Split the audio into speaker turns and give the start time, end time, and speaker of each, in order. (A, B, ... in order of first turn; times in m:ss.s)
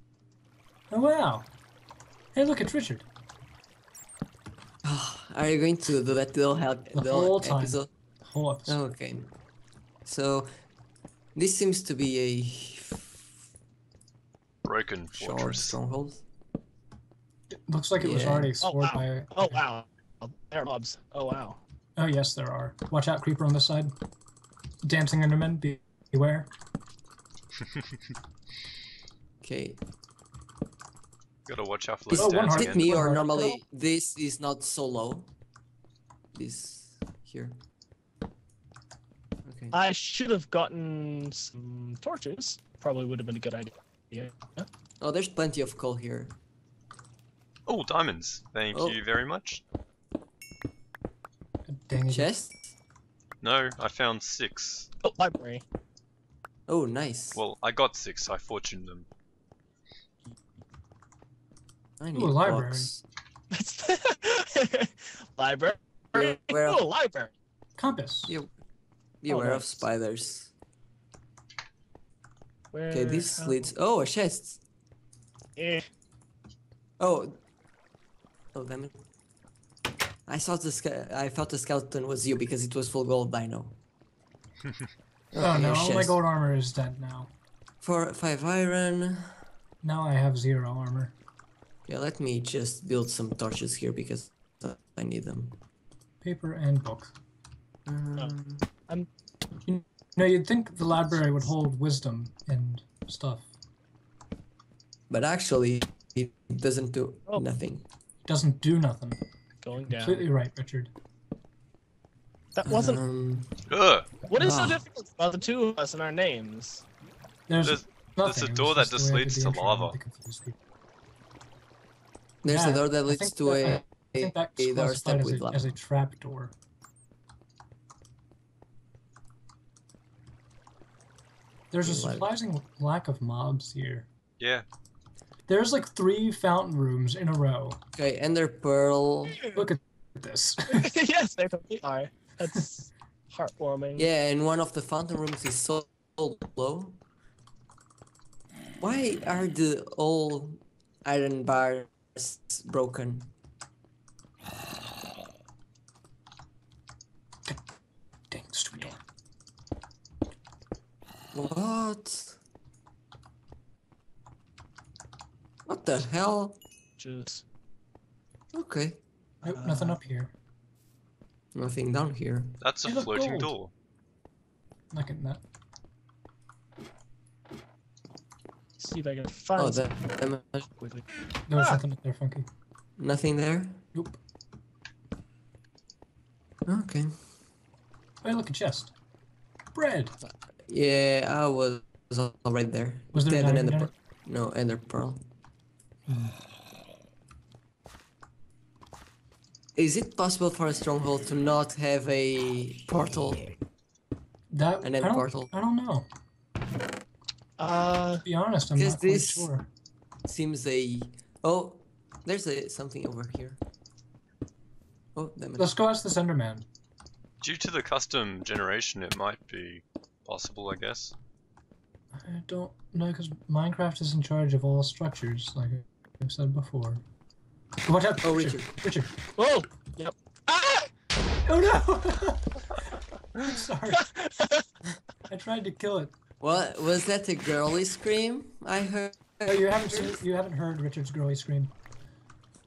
0:00.9-0:01.5 A
0:02.3-0:03.0 A
0:04.8-0:07.9 B
0:06.9-0:08.8 A
0:08.7-0:09.3 B
0:10.0-0:10.5 B
0:11.3-0:13.2 B
0:14.6-0:15.7 C
0:15.1-0:16.2 B
0:17.5-0:19.6 A
0:18.0-0:18.5 B
0:18.6-0:21.6 D
0:22.0-0:23.9 A
0:24.8-0:26.5 A
0:29.4-0:29.8 B
0:31.5-0:32.9 C
0:32.1-0:33.2 A
0:32.1-0:35.3 B
0:33.1-0:33.6 D
0:36.3-0:37.6 B
0:39.4-0:39.8 B
0:39.7-0:44.7 D
0:45.0-0:46.4 B
0:47.7-0:49.6 C
0:48.7-0:49.0 B
0:51.6-0:52.3 A
0:52.1-0:52.7 B
0:53.4-0:54.9 C
0:55.0-0:55.6 D
0:56.7-0:57.4 B
0:57.3-0:59.1 C
1:02.0-1:03.0 B
1:02.1-1:02.9 A
1:03.5-1:07.3 D
1:06.1-1:06.8 B
1:07.8-1:08.4 A
1:09.2-1:10.5 B
1:09.3-1:09.8 D
1:12.7-1:13.7 D
1:12.9-1:14.6 B
1:15.6-1:15.8 D
1:17.0-1:17.4 B
1:18.5-1:19.0 B
1:20.3-1:23.8 B
1:25.3-1:26.2 B
1:25.4-1:27.3 A
1:27.8-1:29.3 B
1:29.8-1:31.1 A
1:31.9-1:35.6 B
1:36.2-1:37.1 A
1:37.8-1:38.6 B
1:39.6-1:43.5 A
1:45.1-1:47.8 B
1:48.2-1:49.2 A
1:49.6-1:50.2 D
1:49.8-1:50.9 A
1:52.5-1:53.0 D
1:52.6-1:53.6 B
1:53.7-1:54.2 C
1:54.3-1:56.8 D
1:54.3-1:54.8 B
1:57.5-2:00.6 A
1:57.6-2:00.0 C
2:02.4-2:05.7 B
2:02.4-2:06.5 A
2:11.7-2:14.1 A
2:11.8-2:12.3 B
2:14.4-2:14.6 C
2:15.5-2:17.8 A
2:18.0-2:19.4 B
2:19.5-2:20.9 A
2:20.7-2:24.1 D
2:24.0-2:27.0 B
2:28.8-2:33.3 B
2:38.3-2:39.0 A
2:41.3-2:42.4 B
2:45.7-2:46.6 B
2:47.0-2:47.4 D
2:48.5-2:50.0 B
2:49.4-2:50.3 A
2:51.5-2:52.6 B
2:52.6-2:53.7 C
2:52.8-2:53.5 A
2:54.9-2:55.4 A
2:58.8-2:59.9 D
2:59.6-3:00.7 B
3:00.8-3:01.8 D
3:01.5-3:02.5 A
3:03.0-3:03.8 B
3:03.9-3:04.2 A
3:06.7-3:07.1 B
3:08.2-3:08.9 A
3:09.7-3:10.2 A
3:10.7-3:15.2 B
3:13.1-3:13.9 A
3:16.1-3:16.4 A
3:19.8-3:23.5 B
3:24.5-3:26.1 A
3:24.8-3:25.5 B
3:27.6-3:28.2 D
3:28.2-3:29.7 A
3:28.8-3:29.5 B
3:30.2-3:33.6 B
3:35.1-3:35.7 B
3:35.6-3:36.7 A
3:37.4-3:41.1 C
3:42.1-3:47.0 A
3:47.8-3:49.1 A
3:48.2-3:48.7 B
3:49.4-3:50.9 D
3:51.4-3:52.7 A
3:53.4-3:54.1 A
3:54.0-3:54.6 D
3:55.3-3:56.1 A
3:56.4-4:00.2 B
3:59.5-4:01.7 A